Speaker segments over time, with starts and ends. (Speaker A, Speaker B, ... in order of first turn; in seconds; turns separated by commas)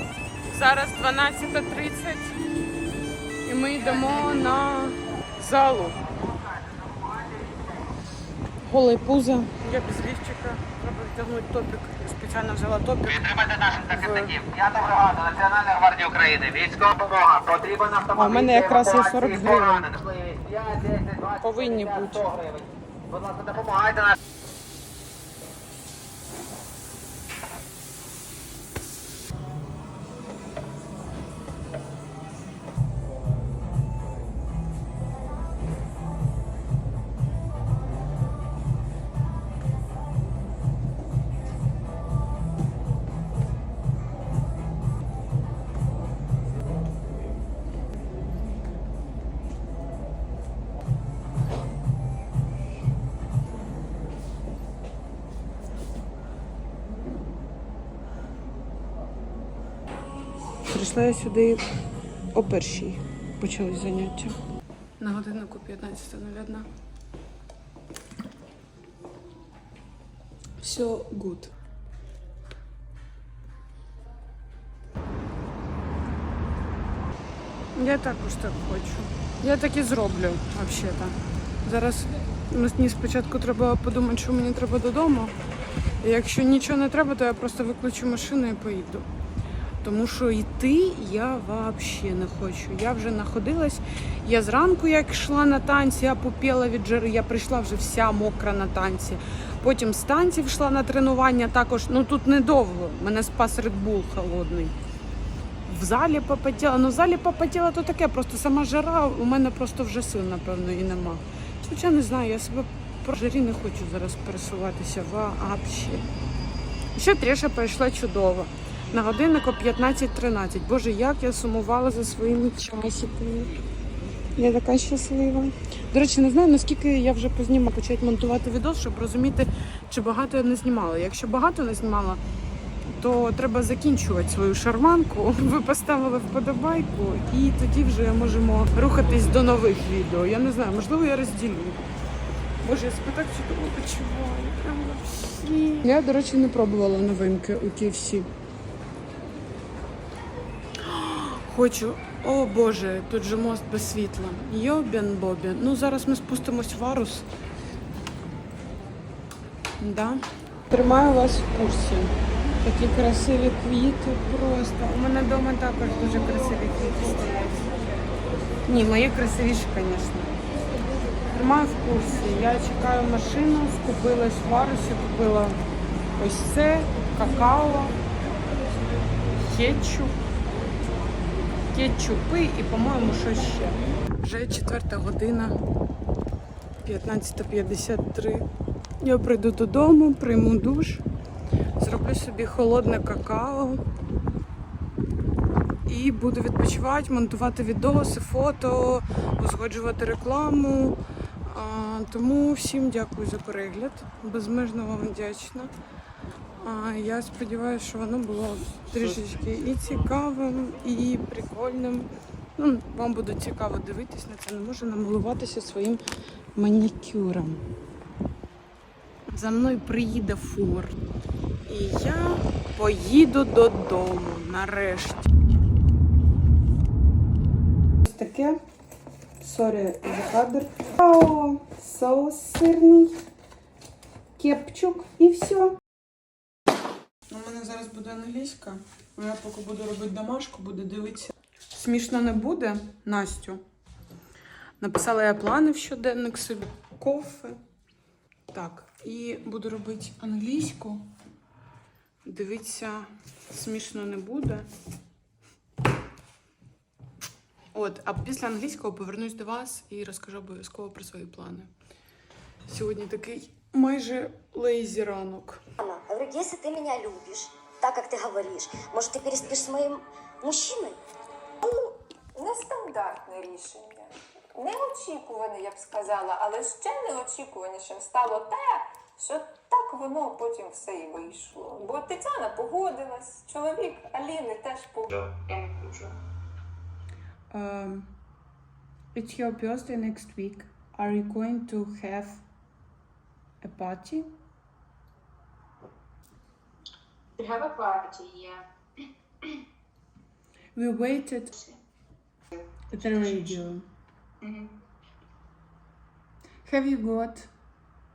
Speaker A: 0.5-2.4, Speaker A: 3.4-6.0, Speaker A: 8.6-14.4, Speaker B: 13.1-24.1, Speaker A: 18.1-19.9, Speaker A: 21.4-22.3, Speaker A: 60.7-61.6, Speaker A: 62.3-64.4, Speaker A: 65.0-66.7, Speaker A: 70.6-71.5, Speaker A: 77.7-85.3, Speaker A: 86.0-89.1, Speaker A: 89.8-104.7, Speaker A: 105.7-116.1, Speaker A: 116.9-123.5, Speaker A: 124.3-132.2, Speaker A: 132.9-141.9, Speaker A: 142.6-148.3, Speaker A: 150.8-157.3, Speaker A: 159.8-167.8, Speaker A: 168.6-170.3, Speaker A: 171.3-175.6, Speaker A: 176.2-178.0, Speaker A: 179.3-180.2, Speaker A: 181.7-185.6, Speaker A: 186.8-188.5, Speaker A: 189.0-191.0, Speaker A: 191.8-193.8, Speaker A: 195.9-205.7, Speaker A: 206.6-216.0, Speaker A: 216.5-217.6, Speaker A: 219.3-221.0, Speaker A: 221.7-225.3, Speaker A: 228.0-228.6, Speaker A: 229.4-233.2, Speaker A: 234.4-235.8, Speaker A: 237.3-243.6, Speaker A: 244.8-247.6, Speaker A: 248.5-251.1, Speaker A: 252.2-254.7, Speaker A: 257.7-261.7, Speaker A: 262.7-265.6, Speaker C: 265.8-271.0, Speaker D: 271.6-285.1, Speaker E: 285.1-286.1, Speaker A: 287.5-288.1, Speaker A: 289.1-292.4, Speaker A: 293.6-294.3, Speaker E: 297.4-298.6, Speaker A: 300.7-301.5, Speaker E: 301.5-301.8, Speaker A: 302.9-303.8, Speaker E: 302.9-303.6, Speaker E: 304.4-304.7, Speaker A: 306.6-307.5